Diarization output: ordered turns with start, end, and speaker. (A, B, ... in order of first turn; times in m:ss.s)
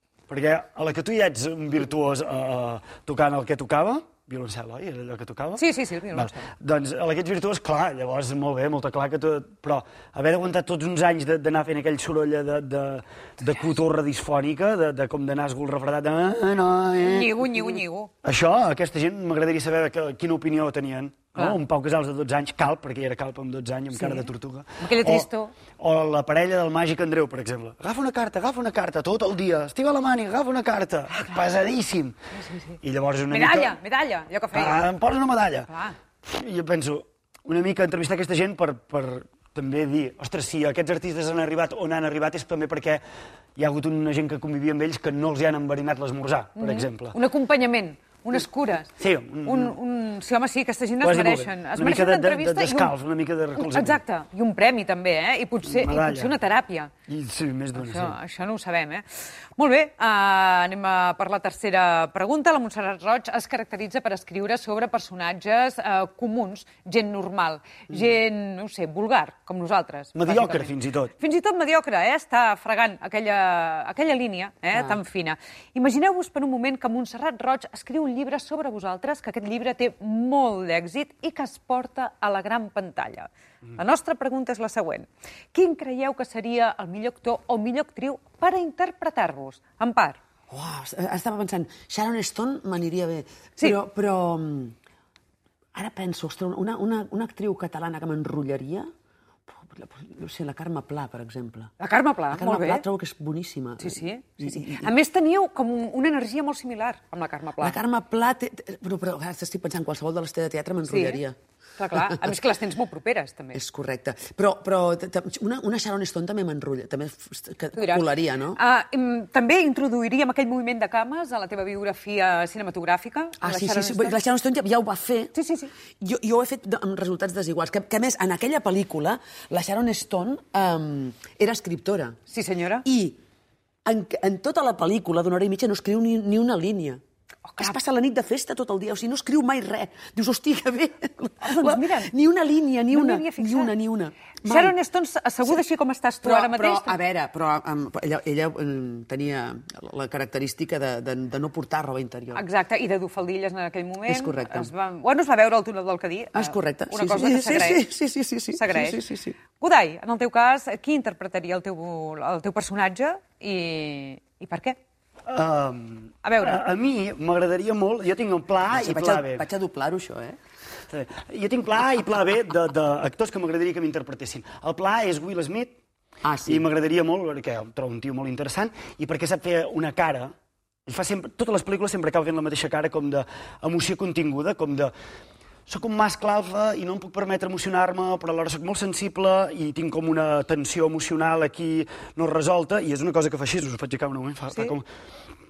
0:00.3-0:25.3 A
0:05.6-0:06.5 B
0:17.0-0:18.1 B
0:24.0-0:25.5 B
0:25.8-0:32.2 A
0:32.3-0:32.8 B
0:32.8-0:33.8 A
0:33.3-0:34.8 B
0:34.5-0:35.7 A
0:35.7-0:36.0 B
0:36.2-0:43.0 A
0:43.6-0:47.1 A
0:46.6-0:52.9 B
0:49.0-0:49.8 A
0:51.0-0:54.0 A
0:53.5-0:56.9 B
0:55.6-0:56.3 A
0:57.1-0:58.2 A
0:57.8-0:59.0 B
0:59.6-1:30.2 B
1:10.2-1:11.1 A
1:30.5-1:34.7 C
1:35.7-1:38.9 C
1:39.5-1:41.7 C
1:41.8-1:42.8 B
1:42.3-1:44.9 C
1:43.8-1:47.8 B
1:47.6-1:51.4 C
1:50.8-1:51.2 B
1:51.8-1:53.6 B
1:51.9-1:52.3 C
1:53.5-1:58.6 C
1:57.7-2:04.2 B
2:03.4-2:05.3 C
2:05.3-2:05.7 B
2:06.0-2:12.2 C
2:12.3-2:12.8 B
2:12.8-2:13.2 C
2:13.8-2:17.0 C
2:17.4-2:17.8 B
2:17.6-2:24.7 C
2:21.4-2:22.1 B
2:22.9-2:23.7 B
2:24.4-2:27.0 B
2:26.2-2:32.4 C
2:32.3-2:37.9 B
2:34.0-2:34.7 C
2:36.3-2:39.4 C
2:38.5-2:44.8 B
2:45.3-2:49.4 A
2:46.2-2:46.6 B
2:48.7-2:50.4 C
2:50.9-2:55.8 A
2:56.2-2:56.6 C
2:56.4-3:00.3 A
3:00.9-3:04.9 A
3:05.7-3:14.9 A